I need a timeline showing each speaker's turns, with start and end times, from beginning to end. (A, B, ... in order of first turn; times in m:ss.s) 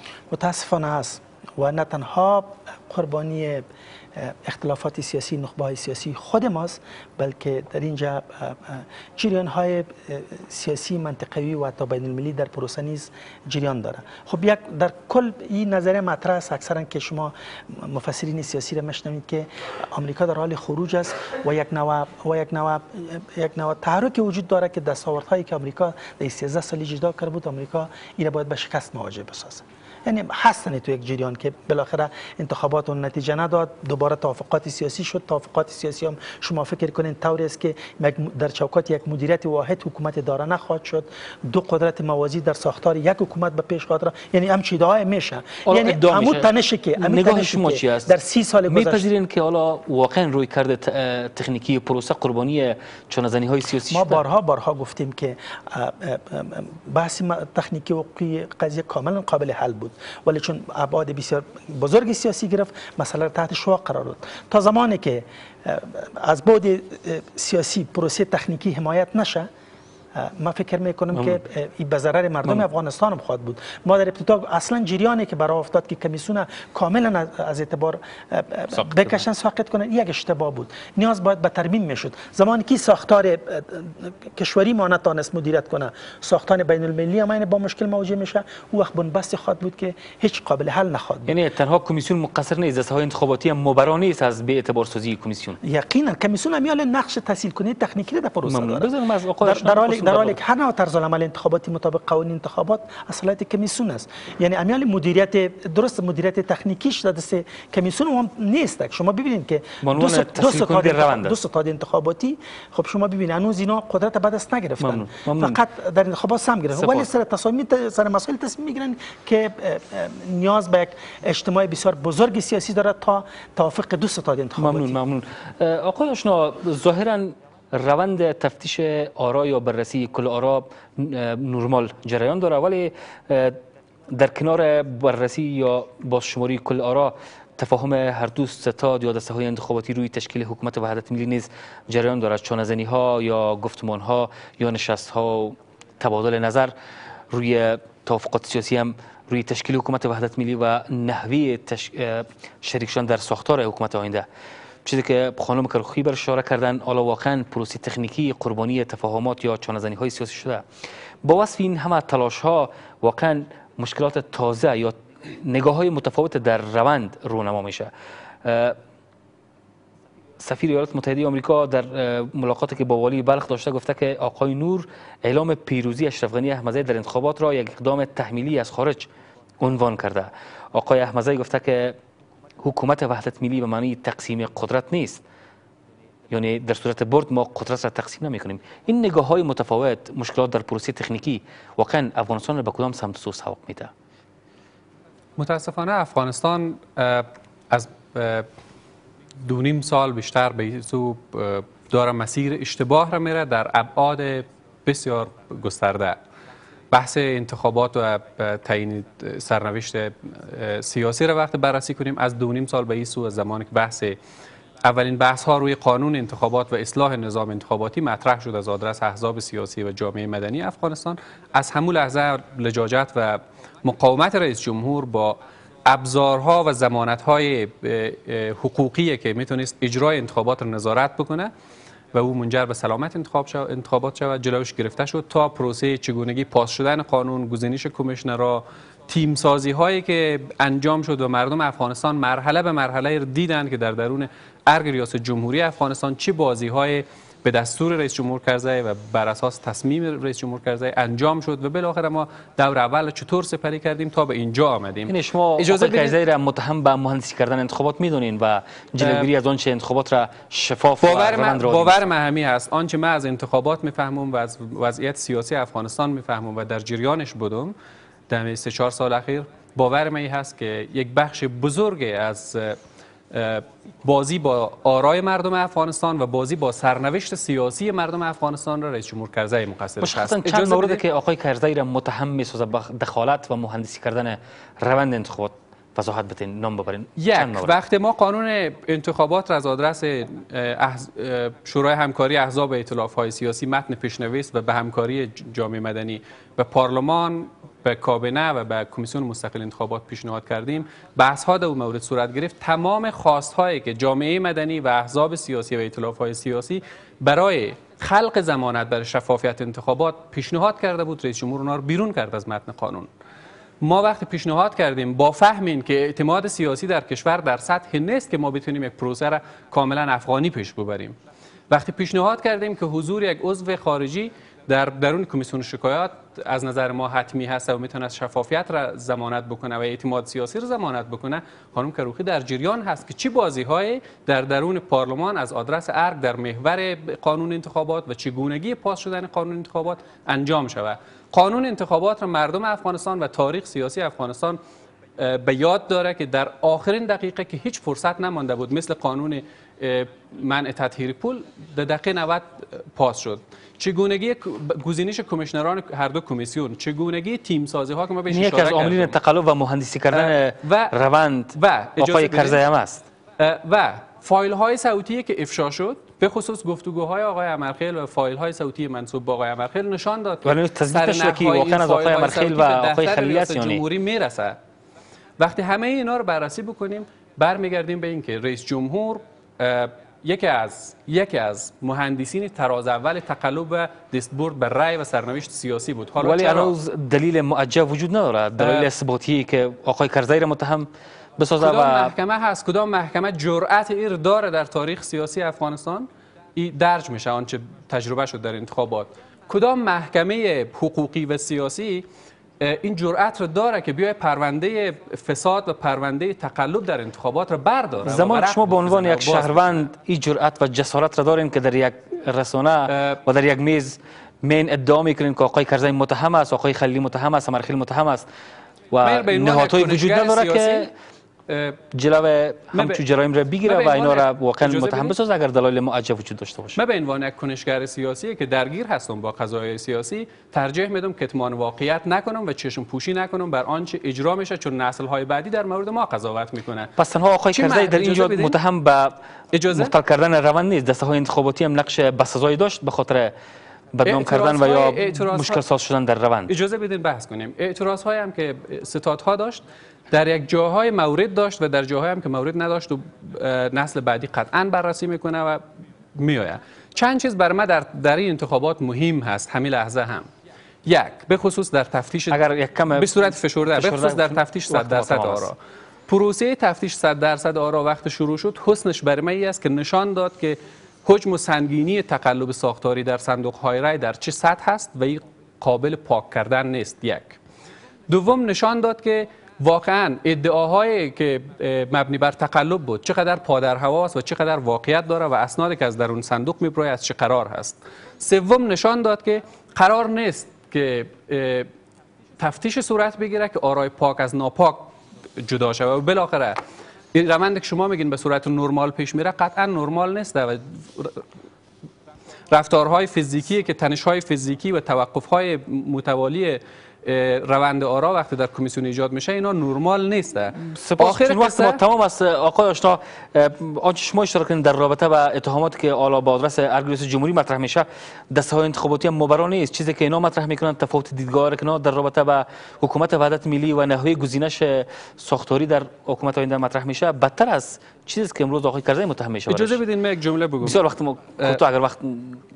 0:00.3-0:49.1 A
0:45.6-0:48.1 B
0:48.7-0:54.2 B
0:53.9-1:09.5 A
1:10.1-1:31.3 A
1:18.8-1:19.2 B
1:31.3-1:35.6 B
1:35.6-1:38.9 A
1:38.4-1:40.4 B
1:39.4-2:05.0 A
1:49.8-1:51.4 B
1:54.8-1:55.6 B
1:56.7-1:57.1 B
2:04.6-2:26.7 B
2:27.3-2:34.2 B
2:34.8-2:40.6 B
2:41.2-2:47.9 B
2:48.4-2:48.8 B
2:50.4-2:59.1 B
2:59.6-3:02.0 B
3:02.6-3:05.2 B
3:06.3-3:13.9 B
3:15.4-3:18.5 C
3:19.4-3:26.2 C
3:26.9-3:34.2 C
3:34.8-3:51.5 C
3:52.1-4:16.1 C
4:15.1-4:22.0 B
4:19.0-4:19.3 C
4:21.0-4:27.7 C
4:28.3-4:32.8 C
4:33.3-4:41.0 C
4:40.0-4:47.8 B
4:47.2-5:13.1 C
5:13.8-5:21.2 C
5:21.7-5:44.6 C
5:45.2-5:59.1 C
5:58.3-6:03.0 B
6:00.1-6:00.9 C
6:01.5-6:02.6 C
6:03.4-6:14.6 C
6:10.4-6:13.8 B
6:15.4-6:26.7 C
6:26.2-6:32.1 B
6:28.6-6:28.9 C
6:31.6-6:42.0 C
6:42.6-6:49.8 C
6:48.0-6:58.2 B
6:52.9-6:53.2 C
6:58.9-7:00.9 B
6:59.0-7:00.9 C
7:01.5-7:01.8 C
7:01.9-7:06.8 B
7:02.7-7:03.0 C
7:03.6-7:05.1 C
7:06.8-7:16.9 C
7:17.0-7:19.2 B
7:17.5-7:18.6 C
7:19.5-7:19.9 C
7:19.7-7:23.3 B
7:23.9-7:26.5 B
7:24.0-7:25.6 C
7:26.5-7:35.6 C
7:36.2-7:40.3 C
7:40.8-7:45.6 C
7:42.3-7:45.5 B
7:46.1-7:57.4 C
7:58.1-8:11.7 C
8:12.4-8:16.6 C
8:17.1-8:21.2 C
8:22.5-8:31.8 C
8:30.6-8:49.8 B
8:49.5-8:50.8 C
8:50.6-8:52.4 B